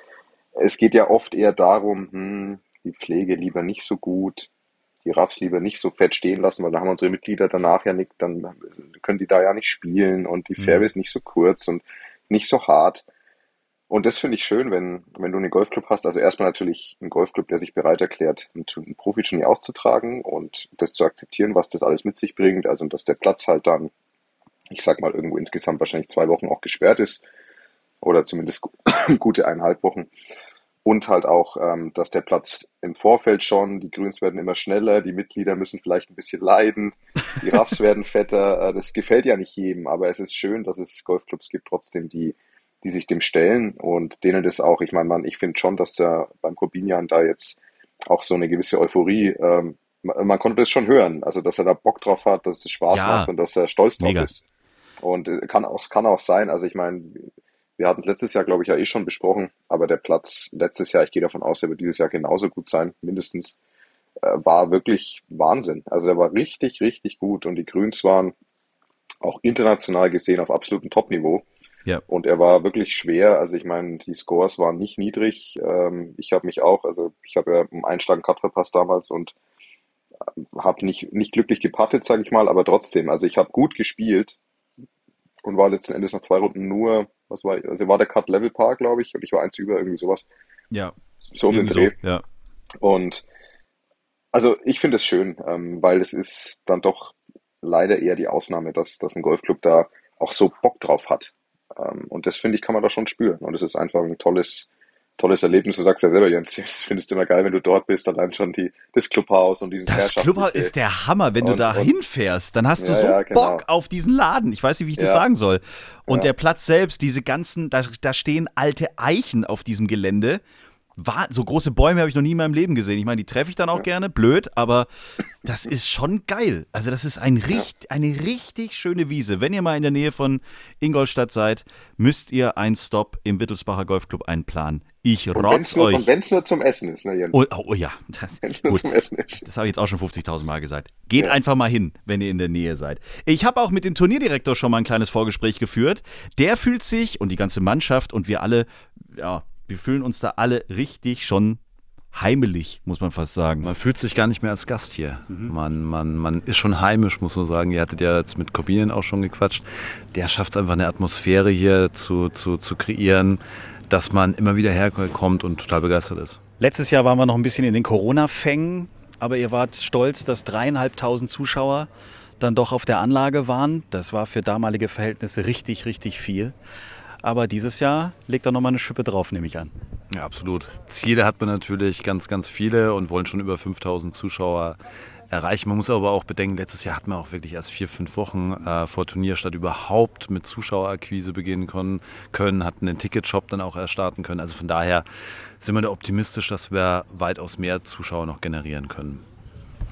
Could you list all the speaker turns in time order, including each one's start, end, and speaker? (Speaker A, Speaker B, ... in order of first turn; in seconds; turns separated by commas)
Speaker A: 0.6-4.5, Speaker A: 5.0-13.0, Speaker B: 10.6-10.8, Speaker A: 13.9-23.9, Speaker A: 24.7-27.2, Speaker A: 28.0-30.1, Speaker A: 30.8-54.4, Speaker B: 52.9-53.3, Speaker B: 54.0-54.3, Speaker A: 55.0-63.6, Speaker A: 64.2-68.3, Speaker A: 69.2-71.5, Speaker A: 72.1-79.3, Speaker A: 80.4-84.4, Speaker A: 85.4-90.3, Speaker A: 91.3-92.0, Speaker B: 91.5-92.2, Speaker A: 92.8-93.2, Speaker A: 94.3-110.7, Speaker B: 109.9-120.4, Speaker A: 111.4-111.9, Speaker A: 112.8-113.6, Speaker A: 115.0-115.2, Speaker B: 121.0-124.9, Speaker B: 125.4-136.1, Speaker A: 135.3-137.4, Speaker B: 137.3-138.8, Speaker A: 138.4-139.4, Speaker B: 139.4-151.6, Speaker B: 152.1-153.7, Speaker C: 153.6-166.4, Speaker B: 166.6-171.9, Speaker B: 172.4-176.5, Speaker B: 177.2-179.7, Speaker C: 180.1-195.0, Speaker C: 195.6-199.2